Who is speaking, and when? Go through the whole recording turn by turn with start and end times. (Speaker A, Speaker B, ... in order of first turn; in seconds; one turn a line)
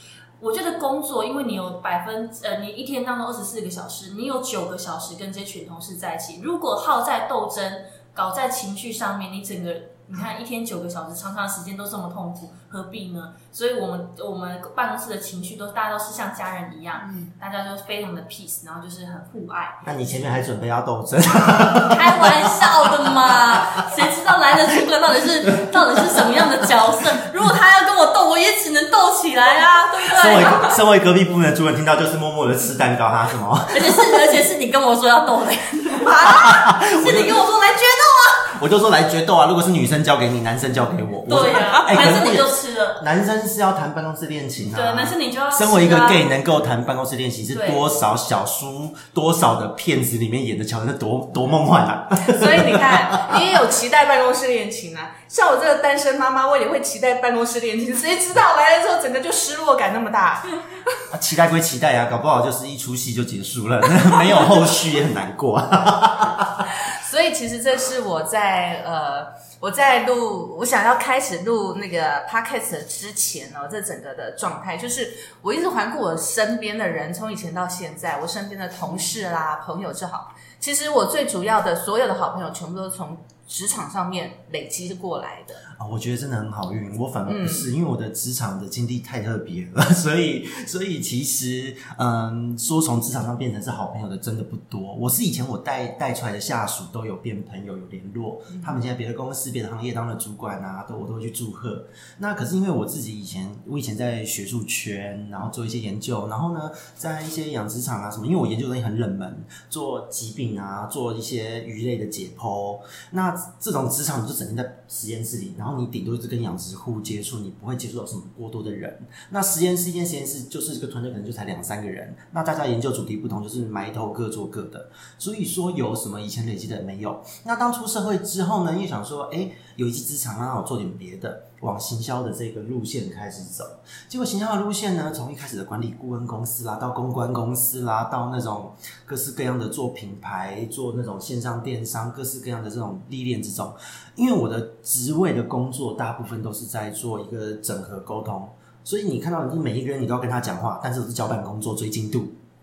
Speaker A: 0.4-19.8
Speaker B: 17.0-17.3
Speaker C: 19.8-23.9
Speaker A: 21.9-30.8
Speaker C: 30.1-34.2
Speaker A: 33.7-38.5
Speaker C: 36.2-37.4
Speaker C: 38.5-53.5
Speaker A: 41.2-43.0
Speaker A: 44.7-46.2
Speaker A: 47.5-47.8
Speaker B: 52.2-60.5
Speaker C: 61.1-66.7
Speaker B: 66.8-85.6
Speaker C: 85.7-152.4
Speaker B: 87.2-87.7